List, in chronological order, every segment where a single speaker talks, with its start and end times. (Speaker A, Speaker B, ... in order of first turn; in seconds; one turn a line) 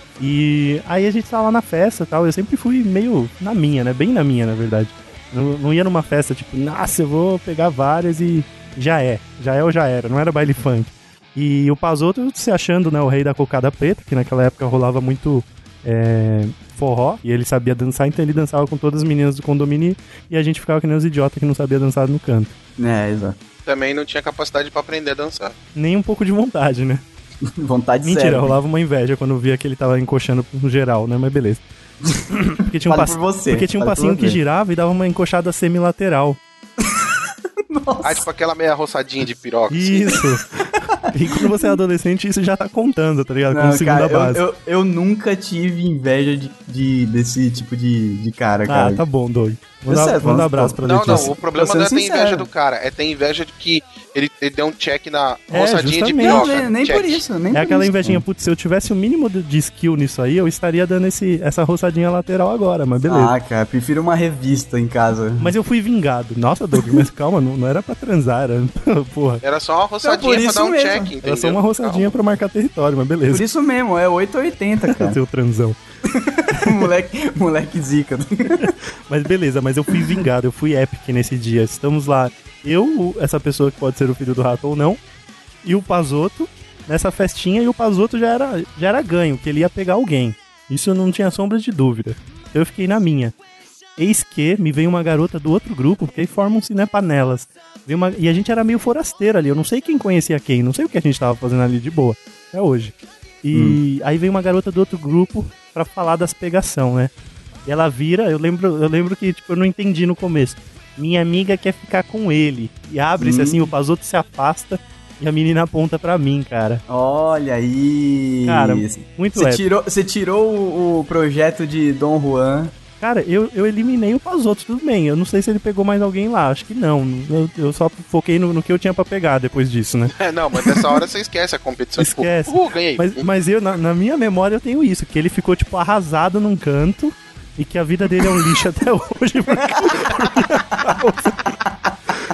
Speaker A: 0.2-22.5
Speaker B: 22.8-23.4
Speaker C: 23.7-25.5
Speaker A: 25.8-27.0
Speaker B: 27.5-28.6
Speaker A: 28.0-31.6
Speaker B: 32.2-34.4
Speaker A: 32.3-36.4
Speaker B: 37.7-38.2
Speaker C: 38.0-40.2
Speaker A: 39.7-44.4
Speaker B: 41.1-41.8
Speaker B: 43.5-49.0
Speaker A: 48.7-51.3
Speaker B: 49.9-52.5
Speaker C: 50.8-57.2
Speaker A: 55.5-56.7
Speaker B: 56.2-58.2
Speaker A: 57.5-63.4
Speaker B: 63.1-65.5
Speaker A: 65.4-69.4
Speaker C: 69.4-72.2
Speaker B: 70.0-71.1
Speaker A: 71.2-73.4
Speaker B: 73.3-75.2
Speaker A: 74.8-75.8
Speaker B: 76.1-78.7
Speaker A: 76.5-76.9
Speaker A: 78.5-85.0
Speaker A: 85.6-93.3
Speaker A: 94.0-107.1
Speaker B: 103.5-103.8
Speaker A: 107.7-116.8
Speaker B: 113.2-113.7
Speaker B: 116.9-122.7
Speaker A: 118.5-119.7
Speaker A: 123.0-130.1
Speaker C: 130.2-133.2
Speaker A: 132.0-141.4
Speaker B: 139.8-140.4
Speaker B: 141.6-141.9